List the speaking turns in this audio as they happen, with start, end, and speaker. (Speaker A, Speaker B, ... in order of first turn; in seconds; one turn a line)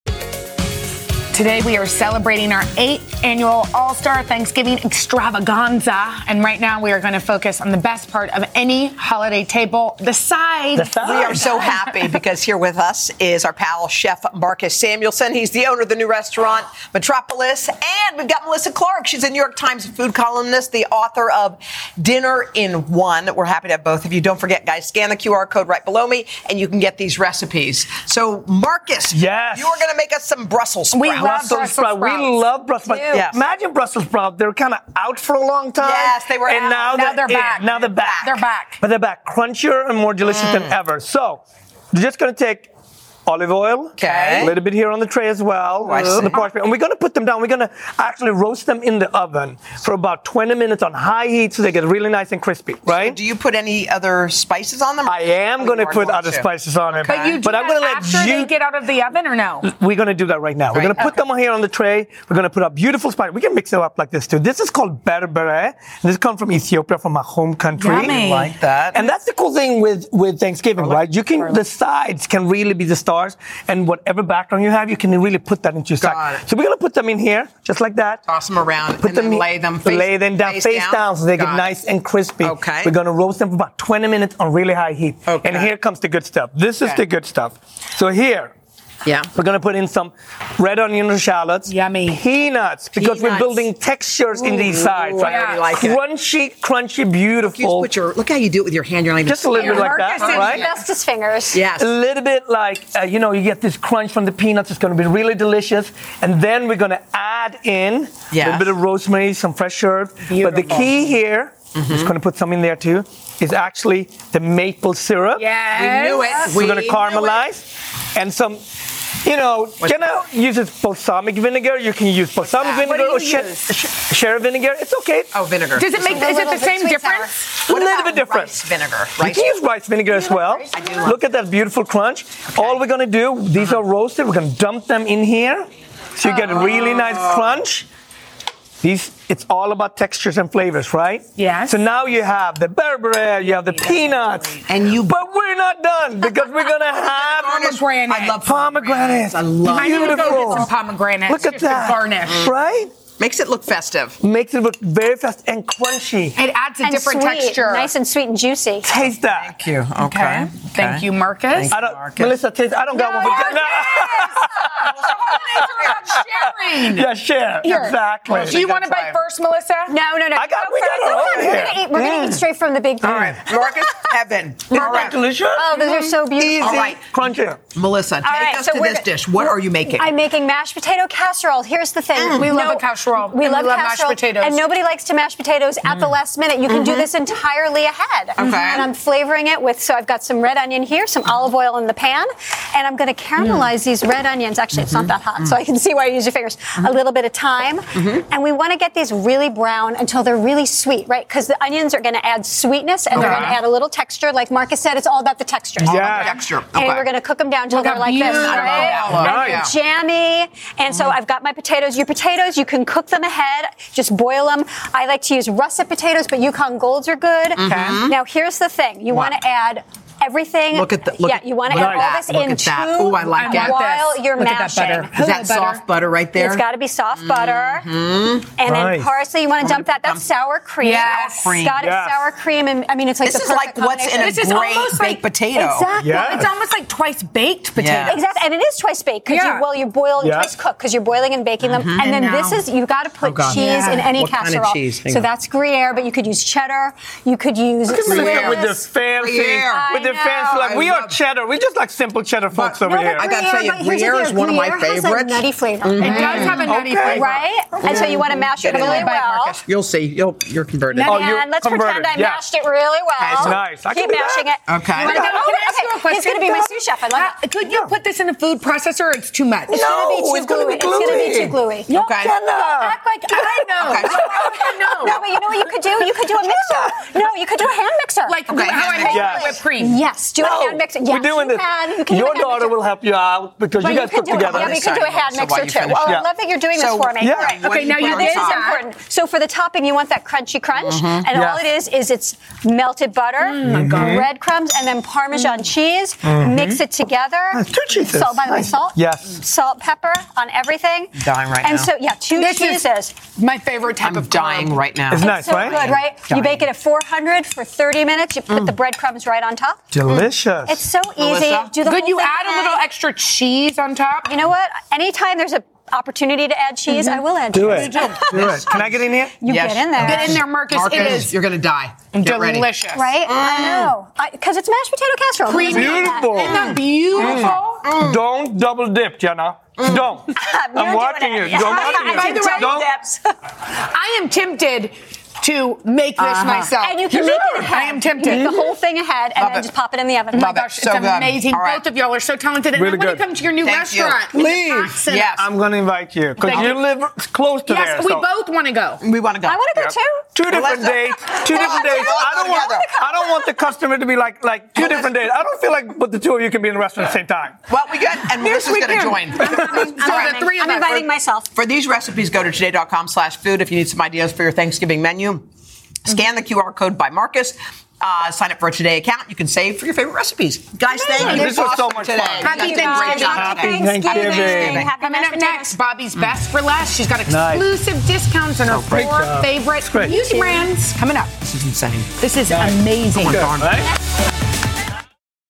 Speaker A: 1.3-12.2
Speaker B: 10.7-11.4
Speaker C: 11.0-31.5
Speaker B: 29.1-29.8
Speaker A: 30.9-32.4
Speaker B: 31.1-42.7
Speaker D: 32.9-33.2
Speaker C: 33.1-33.4
Speaker C: 35.8-37.2
Speaker A: 36.9-38.8
Speaker C: 37.8-38.4
Speaker C: 40.3-40.7
Speaker B: 43.2-53.2
Speaker C: 44.0-44.5
Speaker A: 44.1-44.5
Speaker C: 45.8-46.4
Speaker C: 52.9-57.4
Speaker B: 55.0-58.5
Speaker A: 57.0-59.7
Speaker B: 59.6-68.2
Speaker C: 60.7-61.1
Speaker A: 67.8-68.5
Speaker C: 67.9-69.0
Speaker B: 68.9-78.2
Speaker C: 70.8-71.5
Speaker C: 76.0-76.4
Speaker C: 78.2-81.7
Speaker B: 79.0-88.5
Speaker C: 82.4-82.9
Speaker C: 85.2-85.7
Speaker C: 89.0-89.3
Speaker B: 89.3-97.9
Speaker A: 91.7-92.2
Speaker C: 93.0-93.7
Speaker C: 94.3-96.0
Speaker A: 95.2-95.7
Speaker C: 97.5-100.7
Speaker B: 99.2-100.7
Speaker A: 99.5-100.7
Speaker D: 99.7-101.7
Speaker C: 101.5-101.9
Speaker B: 101.7-115.5
Speaker C: 108.3-108.7
Speaker A: 110.2-111.0
Speaker C: 111.7-112.1
Speaker A: 115.3-116.7
Speaker C: 115.7-117.4
Speaker B: 116.5-118.6
Speaker B: 119.2-125.3
Speaker C: 119.8-120.1
Speaker C: 122.4-122.9
Speaker A: 122.8-123.7
Speaker C: 125.3-126.3
Speaker A: 125.8-127.6
Speaker D: 126.0-127.4
Speaker C: 127.6-129.6
Speaker B: 127.7-128.6
Speaker B: 129.2-137.8
Speaker D: 130.1-130.7
Speaker C: 130.7-131.2
Speaker C: 132.5-132.8
Speaker A: 136.2-136.7
Speaker C: 136.4-137.5
Speaker B: 138.8-147.7
Speaker A: 141.4-141.9
Speaker A: 143.5-144.6
Speaker C: 144.7-145.2
Speaker C: 147.1-150.5
Speaker A: 147.5-148.4
Speaker B: 148.4-150.7
Speaker A: 149.7-152.5
Speaker B: 151.3-152.9
Speaker C: 152.3-152.5
Speaker C: 153.2-154.2
Speaker B: 154.2-156.4
Speaker A: 156.3-157.9
Speaker D: 156.8-158.9
Speaker B: 158.8-159.5
Speaker C: 159.2-162.3
Speaker A: 160.0-161.9
Speaker B: 161.7-166.2
Speaker A: 162.9-169.9
Speaker B: 166.9-168.6
Speaker C: 168.2-169.2
Speaker D: 169.9-173.4
Speaker B: 170.3-172.4
Speaker B: 173.0-173.7
Speaker C: 173.3-175.2
Speaker B: 174.7-177.6
Speaker A: 174.7-175.1
Speaker D: 175.4-177.0
Speaker A: 175.7-176.1
Speaker C: 176.4-177.0
Speaker C: 177.7-180.1
Speaker D: 178.3-225.2
Speaker A: 178.4-178.7
Speaker C: 182.1-182.5
Speaker A: 182.3-184.7
Speaker C: 185.8-186.1
Speaker C: 186.7-187.1
Speaker C: 188.4-188.9
Speaker C: 193.4-193.6
Speaker C: 194.7-195.6
Speaker C: 197.9-198.2
Speaker C: 203.1-203.6
Speaker A: 203.1-203.5
Speaker B: 205.8-206.3
Speaker C: 205.8-207.1
Speaker A: 207.7-209.5
Speaker C: 208.2-209.7
Speaker B: 209.1-209.6
Speaker C: 210.9-211.2
Speaker C: 217.5-218.2
Speaker A: 217.6-218.0
Speaker C: 220.7-223.8
Speaker B: 221.7-222.2
Speaker A: 223.3-225.8
Speaker C: 225.1-228.6
Speaker D: 226.3-227.9
Speaker D: 228.5-234.7
Speaker B: 228.6-229.2
Speaker C: 229.6-230.2
Speaker A: 230.8-231.6
Speaker C: 231.0-231.8
Speaker B: 231.7-232.3
Speaker C: 233.2-235.9
Speaker A: 234.2-235.2
Speaker D: 235.5-236.4
Speaker B: 236.0-236.5
Speaker A: 236.0-238.4
Speaker C: 237.8-238.2
Speaker D: 238.0-248.8
Speaker A: 239.2-239.7
Speaker B: 240.2-240.5
Speaker C: 241.6-242.0
Speaker A: 242.0-242.6
Speaker C: 243.2-245.2
Speaker A: 243.5-244.1
Speaker B: 247.8-253.3
Speaker C: 248.0-251.2
Speaker D: 249.7-250.5
Speaker C: 252.5-256.6
Speaker D: 252.8-259.6
Speaker A: 256.0-259.6
Speaker B: 256.6-257.4
Speaker C: 257.8-259.1
Speaker C: 259.6-261.1
Speaker A: 260.9-261.3
Speaker B: 261.1-262.4
Speaker D: 261.1-267.4
Speaker C: 263.2-263.6
Speaker B: 263.2-264.5
Speaker C: 264.6-265.2
Speaker A: 264.9-270.0
Speaker C: 269.7-272.4
Speaker D: 269.7-282.8
Speaker B: 270.0-271.5
Speaker A: 270.8-271.5
Speaker B: 272.1-273.0
Speaker A: 273.3-275.2
Speaker C: 273.8-275.3
Speaker B: 276.3-276.9
Speaker A: 278.2-280.1
Speaker C: 278.5-279.4
Speaker B: 279.0-279.6
Speaker B: 280.4-284.8
Speaker C: 280.4-280.7
Speaker D: 283.8-303.1
Speaker A: 284.1-284.5
Speaker C: 284.2-288.7
Speaker B: 285.9-286.3
Speaker B: 287.2-287.6
Speaker A: 287.4-288.9
Speaker C: 290.8-291.3
Speaker B: 291.3-291.7
Speaker A: 293.4-294.2
Speaker B: 293.6-294.3
Speaker B: 296.2-296.8
Speaker B: 297.5-299.4
Speaker C: 301.1-301.9
Speaker A: 302.3-304.9
Speaker C: 304.0-306.6
Speaker B: 305.1-305.9
Speaker D: 305.1-309.9
Speaker C: 308.5-308.7
Speaker B: 309.9-310.9
Speaker C: 310.1-310.3
Speaker D: 310.6-312.9
Speaker C: 311.1-311.8
Speaker A: 311.8-314.3
Speaker D: 314.2-320.5
Speaker A: 316.9-318.2
Speaker B: 317.5-319.4
Speaker C: 318.3-322.7
Speaker A: 320.0-321.4
Speaker A: 322.1-323.3
Speaker D: 322.9-326.8
Speaker C: 323.2-323.9
Speaker A: 325.5-327.9
Speaker B: 325.6-332.9
Speaker C: 327.0-328.2
Speaker C: 329.8-330.7
Speaker D: 330.4-332.8
Speaker C: 331.5-333.2
Speaker A: 331.6-332.8
Speaker A: 333.9-338.6
Speaker C: 336.2-336.7
Speaker D: 336.7-340.5
Speaker C: 339.4-339.7
Speaker A: 340.3-345.2
Speaker C: 340.3-341.8
Speaker B: 342.7-343.3
Speaker C: 343.6-344.4
Speaker B: 344.3-348.3
Speaker C: 345.0-345.4
Speaker A: 346.4-346.8
Speaker C: 346.4-346.7
Speaker A: 347.6-349.0
Speaker C: 349.0-352.9
Speaker D: 349.4-350.4
Speaker B: 349.9-357.6
Speaker D: 351.5-353.8
Speaker C: 354.8-355.1
Speaker C: 357.7-361.0
Speaker A: 358.4-361.1
Speaker D: 359.5-361.5
Speaker C: 361.5-365.4
Speaker C: 366.1-375.0
Speaker D: 370.9-371.5
Speaker B: 371.1-374.9
Speaker A: 371.1-371.6
Speaker A: 372.4-373.8
Speaker D: 372.5-375.8
Speaker A: 374.4-381.4
Speaker B: 377.3-377.7
Speaker B: 378.7-380.3
Speaker D: 380.0-380.7
Speaker C: 381.4-382.1
Speaker A: 382.2-383.5
Speaker B: 382.5-383.9
Speaker C: 383.1-383.9